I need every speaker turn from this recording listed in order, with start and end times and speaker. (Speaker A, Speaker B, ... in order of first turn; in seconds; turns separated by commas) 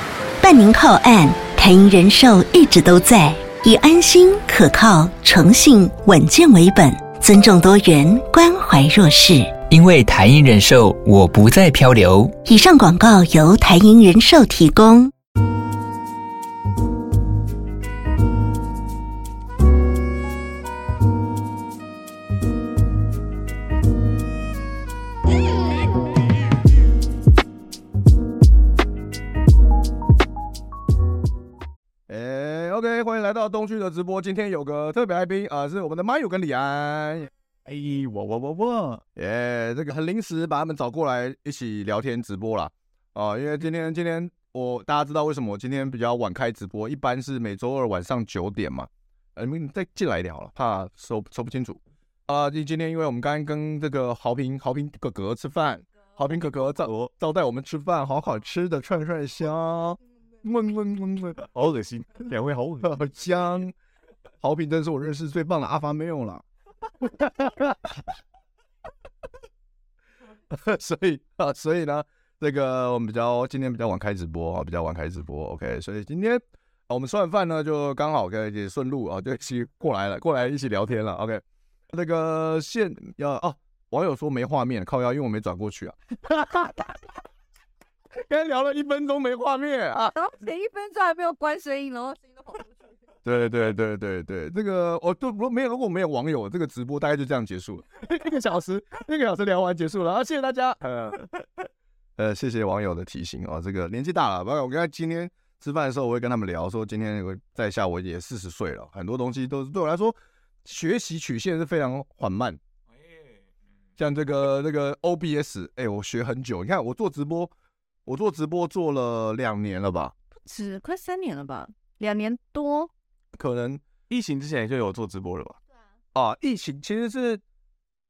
Speaker A: 0.4-9.6, Speaker B: 9.7-12.4, Speaker A: 12.5-15.1, Speaker C: 32.1-37.3, Speaker D: 37.7-39.0, Speaker C: 39.2-61.5, Speaker D: 56.8-57.1, Speaker D: 61.5-62.9, Speaker C: 62.8-63.8, Speaker C: 64.4-66.4, Speaker C: 67.0-68.1, Speaker C: 70.5-87.1, Speaker C: 88.1-90.1, Speaker E: 90.1-92.8, Speaker C: 93.2-101.3, Speaker C: 102.2-112.6, Speaker C: 114.0-117.5, Speaker C: 118.1-120.1, Speaker E: 120.4-122.9, Speaker C: 123.3-123.8, Speaker D: 124.1-125.6, Speaker C: 126.1-127.4